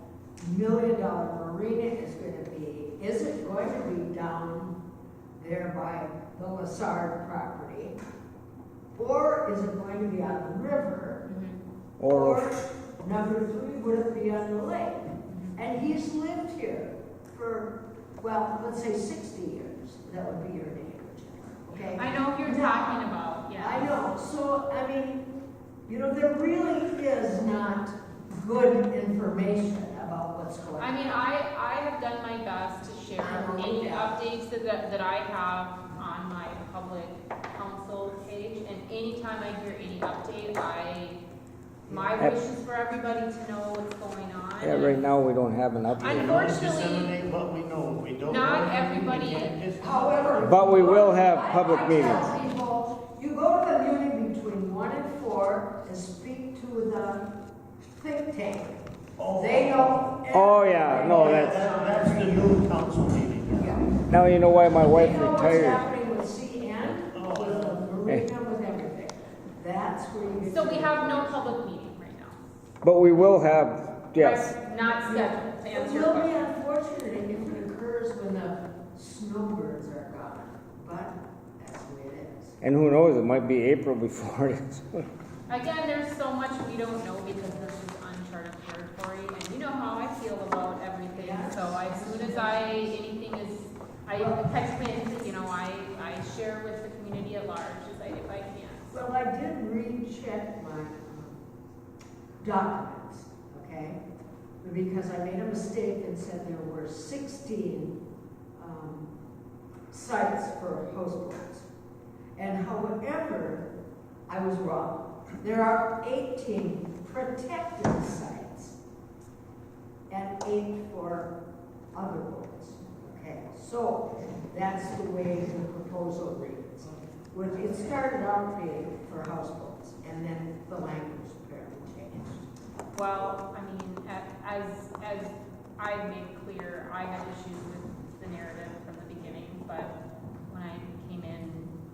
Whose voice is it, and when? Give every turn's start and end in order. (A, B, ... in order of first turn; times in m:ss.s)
0:00.4-0:04.8 A
0:05.4-0:08.0 A
0:08.9-0:11.2 A
0:11.3-0:11.6 B
0:12.0-0:12.6 C
0:12.1-0:25.3 A
0:21.9-0:23.9 B
0:25.9-0:31.1 A
0:30.8-0:41.2 B
0:33.2-0:34.1 A
0:41.9-0:45.0 B
0:41.9-0:42.2 A
0:44.6-0:46.4 C
0:46.0-0:47.1 B
0:46.0-0:51.0 D
0:48.2-0:49.6 B
0:49.8-0:57.2 A
0:50.4-0:52.4 C
0:57.9-1:02.6 A
0:59.2-1:00.1 D
1:00.3-1:01.6 C
1:00.9-1:03.9 D
1:03.5-1:03.9 A
1:04.1-1:05.9 C
1:04.8-1:11.3 A
1:07.1-1:07.8 D
1:10.4-1:12.4 B
1:12.8-1:14.5 C
1:14.1-1:16.5 B
1:14.8-1:22.6 A
1:22.6-1:25.0 C
1:25.5-1:39.0 B
1:31.1-1:32.9 A
1:34.1-1:34.5 A
1:38.9-1:41.4 A
1:42.4-1:44.0 A
1:44.6-1:48.0 A
1:48.5-1:49.1 A
1:49.9-1:51.7 A
1:52.4-1:53.7 A
1:54.3-1:58.8 A
2:00.1-2:01.3 A
2:01.9-2:12.5 A
2:12.9-2:19.9 B
2:20.5-2:21.7 B